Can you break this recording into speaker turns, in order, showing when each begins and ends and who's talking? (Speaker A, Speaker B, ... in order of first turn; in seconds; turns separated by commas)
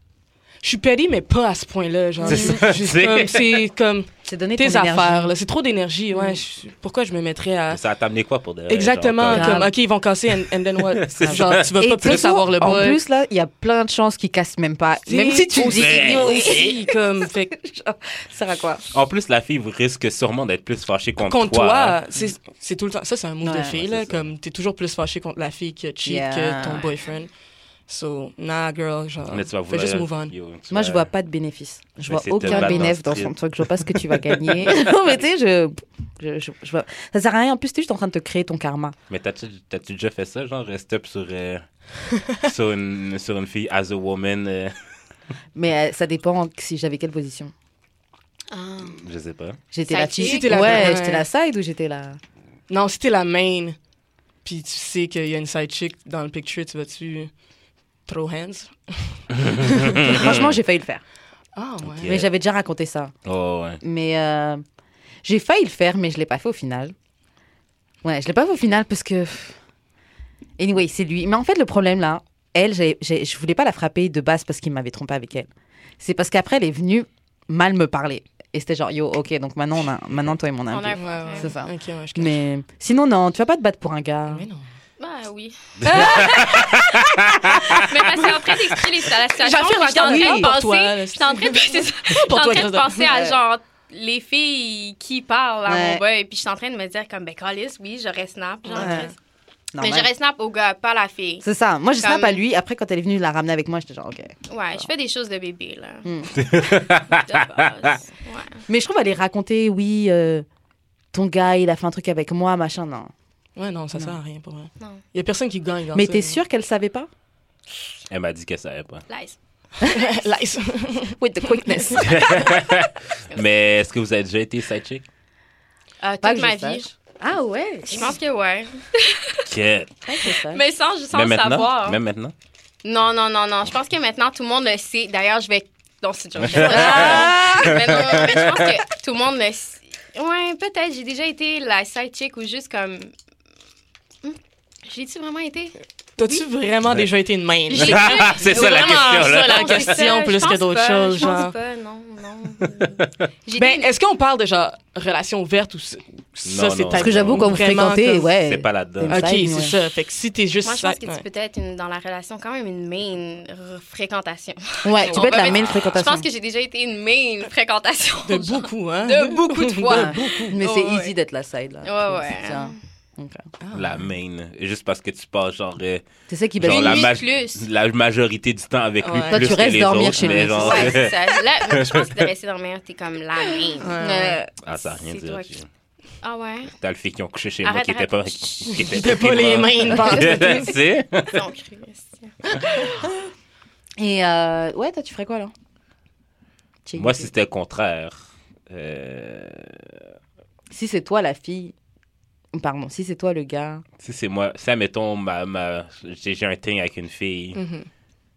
Speaker A: 0.6-7.8, Speaker B: 2.2-2.6, Speaker C: 2.2-3.6, Speaker B: 4.3-5.3, Speaker B: 6.1-6.4, Speaker C: 7.7-9.7, Speaker A: 8.7-13.0, Speaker B: 9.3-9.7, Speaker C: 11.0-12.2, Speaker B: 11.2-17.0, Speaker A: 15.1-17.5, Speaker C: 15.6-16.6, Speaker B: 17.5-18.9, Speaker C: 18.9-22.0, Speaker A: 21.3-27.3, Speaker B: 23.4-23.8, Speaker C: 23.7-24.3, Speaker B: 26.0-26.9, Speaker A: 27.9-30.3, Speaker C: 29.3-31.1, Speaker B: 30.7-39.0, Speaker C: 32.1-33.3, Speaker A: 32.5-32.8, Speaker C: 39.1-41.6, Speaker C: 42.4-44.8, Speaker B: 45.5-47.5, Speaker D: 48.5-49.0, Speaker C: 49.0-49.6, Speaker B: 49.7-52.2, Speaker D: 49.8-51.0, Speaker A: 50.2-51.2, Speaker A: 52.7-53.8, Speaker A: 54.4-57.4, Speaker A: 58.1-60.1, Speaker C: 59.4-60.6, Speaker B: 59.9-61.0, Speaker A: 61.5-62.2, Speaker C: 62.0-62.3, Speaker B: 62.0-63.1, Speaker C: 63.2-63.8, Speaker B: 63.8-64.6, Speaker B: 65.2-66.9, Speaker B: 68.0-69.6, Speaker B: 70.6-75.5, Speaker B: 76.0-84.5, Speaker D: 80.7-81.5, Speaker A: 81.0-82.4, Speaker A: 84.3-84.6, Speaker D: 85.0-99.1, Speaker A: 85.8-86.6, Speaker C: 85.8-87.8, Speaker A: 89.3-93.1, Speaker B: 89.9-90.5, Speaker B: 93.0-93.4, Speaker B: 95.7-96.0, Speaker A: 98.7-99.1, Speaker B: 98.7-99.1, Speaker B: 99.7-100.1, Speaker D: 99.8-101.5, Speaker B: 101.4-104.9, Speaker D: 102.0-102.4, Speaker D: 104.5-106.1, Speaker B: 106.0-106.4, Speaker C: 106.4-107.6, Speaker D: 107.1-108.6, Speaker B: 108.7-110.5, Speaker B: 111.1-113.1, Speaker A: 113.5-116.4, Speaker B: 115.9-117.1, Speaker C: 118.1-119.0, Speaker D: 119.1-119.3, Speaker A: 119.8-121.2, Speaker B: 121.2-122.0, Speaker C: 121.9-125.0, Speaker D: 126.0-126.9, Speaker B: 126.2-128.1, Speaker D: 127.9-129.4, Speaker C: 129.5-129.9, Speaker B: 130.0-130.6, Speaker D: 130.5-132.0, Speaker C: 131.1-132.3, Speaker D: 132.8-143.1, Speaker C: 136.4-138.6, Speaker A: 136.6-137.7, Speaker D: 144.2-146.4, Speaker A: 146.2-151.5, Speaker D: 147.7-153.9, Speaker C: 147.7-150.1, Speaker A: 153.6-158.3, Speaker C: 156.4-157.6, Speaker B: 156.9-159.8, Speaker C: 158.4-159.3, Speaker A: 159.1-161.2, Speaker D: 160.6-171.1, Speaker B: 164.8-166.3, Speaker A: 165.0-165.6, Speaker A: 168.2-170.5, Speaker B: 169.9-173.5, Speaker D: 171.8-172.8, Speaker A: 173.6-174.1, Speaker C: 173.7-176.1, Speaker B: 176.3-177.1, Speaker C: 176.6-182.3, Speaker D: 176.6-177.7, Speaker A: 179.0-180.4, Speaker B: 179.3-181.0, Speaker D: 180.5-185.5, Speaker A: 183.8-184.4, Speaker C: 184.6-185.7, Speaker D: 186.2-186.7, Speaker C: 186.8-191.4, Speaker D: 187.6-189.0, Speaker A: 188.8-190.7, Speaker D: 191.3-192.6, Speaker B: 194.0-195.5, Speaker B: 196.8-197.3, Speaker C: 197.0-199.9, Speaker B: 200.7-201.7, Speaker B: 202.5-203.8, Speaker C: 204.0-207.6, Speaker A: 207.5-207.9